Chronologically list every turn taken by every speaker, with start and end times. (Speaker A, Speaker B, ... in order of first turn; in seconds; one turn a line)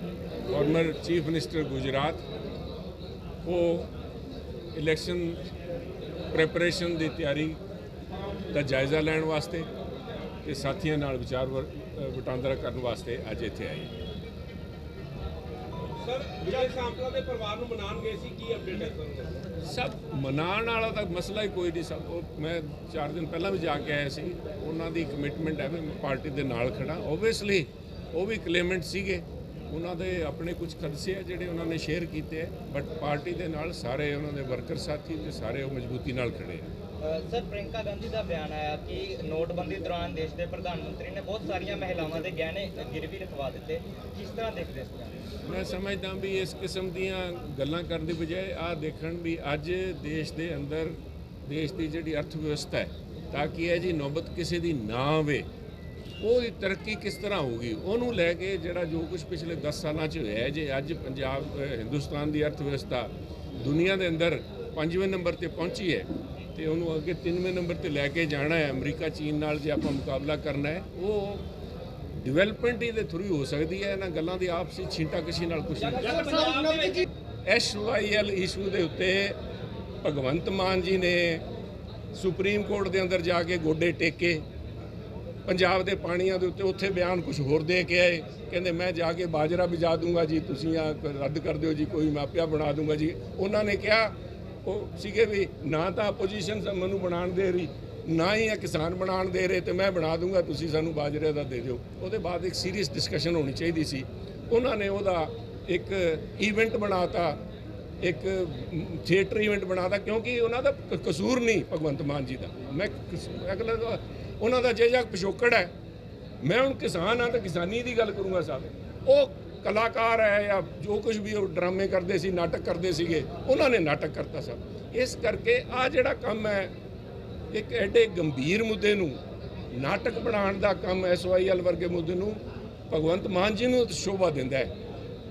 Speaker A: 0.5-2.2
Speaker A: 3.4-3.9
Speaker A: 4.7-5.4
Speaker A: 6.3-7.6
Speaker A: 8.5-9.7
Speaker A: 10.4-13.9
Speaker B: 16.0-19.4
Speaker A: 19.6-36.7
Speaker C: 37.0-45.3
Speaker A: 45.5-55.5
Speaker A: 56.2-71.4
Speaker A: 72.2-76.4
Speaker B: 75.8-77.1
Speaker A: 77.5-79.4
Speaker A: 80.0-81.4
Speaker A: 82.1-84.4
Speaker A: 85.5-107.4
Speaker A: 108.0-115.7
Speaker A: 116.4-126.7
Speaker A: 127.5-129.2
Speaker A: 129.7-134.7